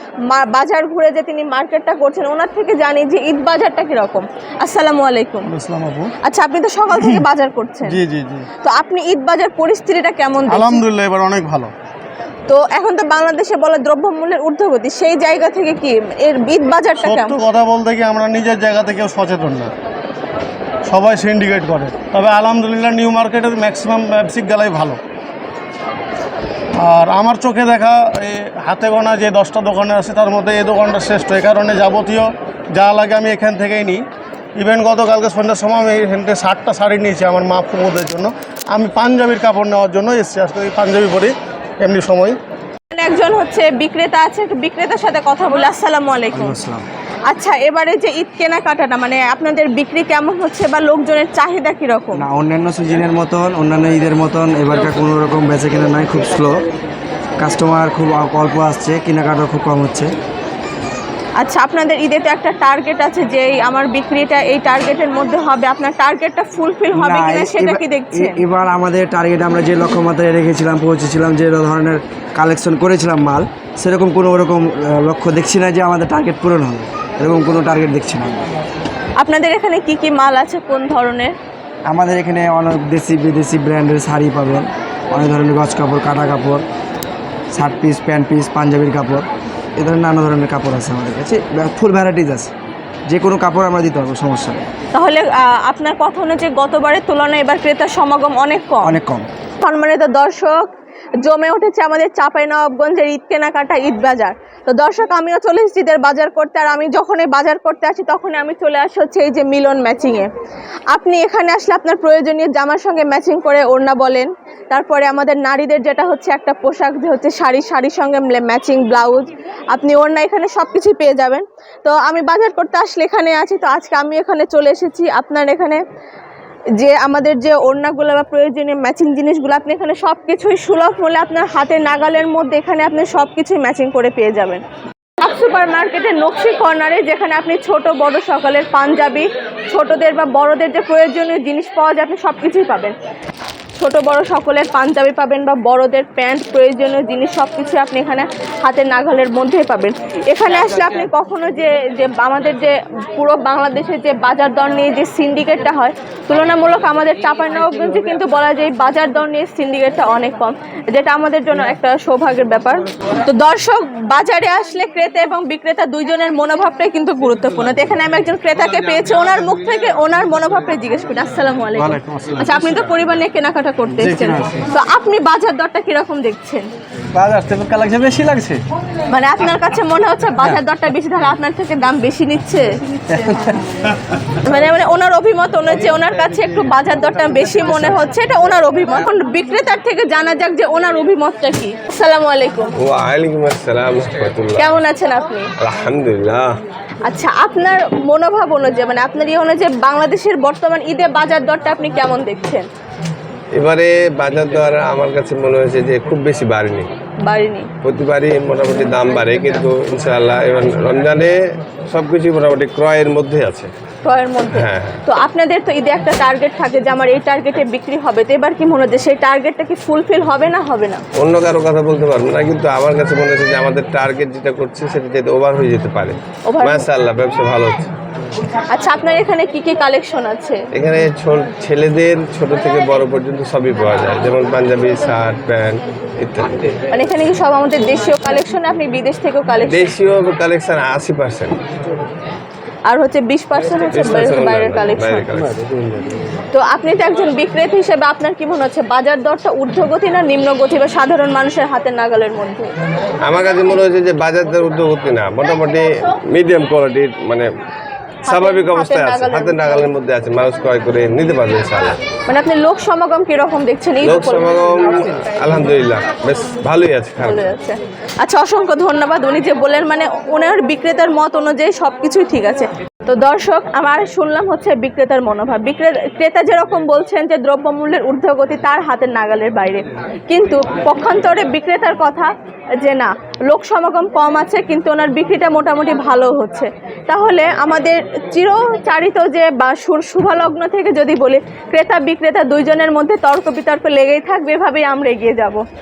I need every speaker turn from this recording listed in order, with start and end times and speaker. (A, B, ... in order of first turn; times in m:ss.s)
0:00.2-0:05.5 A
0:05.5-0:06.1 B
0:06.2-0:08.0 A
0:07.8-0:08.5 B
0:08.6-0:10.8 A
0:10.5-0:11.7 B
0:12.5-0:17.4 A
0:17.0-0:19.7 B
0:20.9-0:25.0 B
0:26.8-0:34.0 B
0:34.6-0:42.4 B
0:42.9-0:46.6 A
0:46.3-0:46.9 C
0:47.3-0:52.2 A
0:52.1-0:56.6 C
0:57.4-1:00.1 C
1:01.4-1:08.4 A
1:06.9-1:18.5 C
1:19.2-1:21.4 A
1:21.9-1:26.6 C
1:27.5-1:32.5 C
1:33.1-1:34.6 C
1:34.9-1:39.0 A
1:38.8-1:39.3 C
1:39.6-1:40.7 A
1:41.2-1:50.3 A
1:50.9-2:05.8 A
2:06.8-2:14.6 A
2:15.2-2:23.0 A
2:23.8-2:56.7 A
2:51.8-2:52.9 C
2:53.9-2:54.6 C
2:57.1-2:58.6 C
2:59.1-3:02.8 A
3:03.1-3:03.7 C
3:04.4-3:12.7 A
3:12.8-3:14.8 D
3:14.6-3:15.5 A
3:15.6-3:16.5 D
3:17.0-3:22.7 A
3:23.6-3:26.9 D
3:27.2-3:27.7 A
3:27.8-3:31.4 D
3:31.9-3:33.7 D
3:34.0-3:41.0 A
3:34.5-3:35.0 D
3:41.2-3:47.9 D
3:46.5-3:46.8 A
3:48.7-3:50.6 A
3:50.7-3:56.7 D
3:56.9-3:59.9 A
3:59.7-4:01.6 D
4:02.9-4:05.3 A
4:03.9-4:06.1 D
4:06.5-4:12.7 A
4:13.3-4:17.5 D
4:18.2-4:22.0 D
4:18.3-4:19.8 A
4:22.3-4:24.5 A
4:24.0-4:27.5 D
4:27.2-4:55.6 A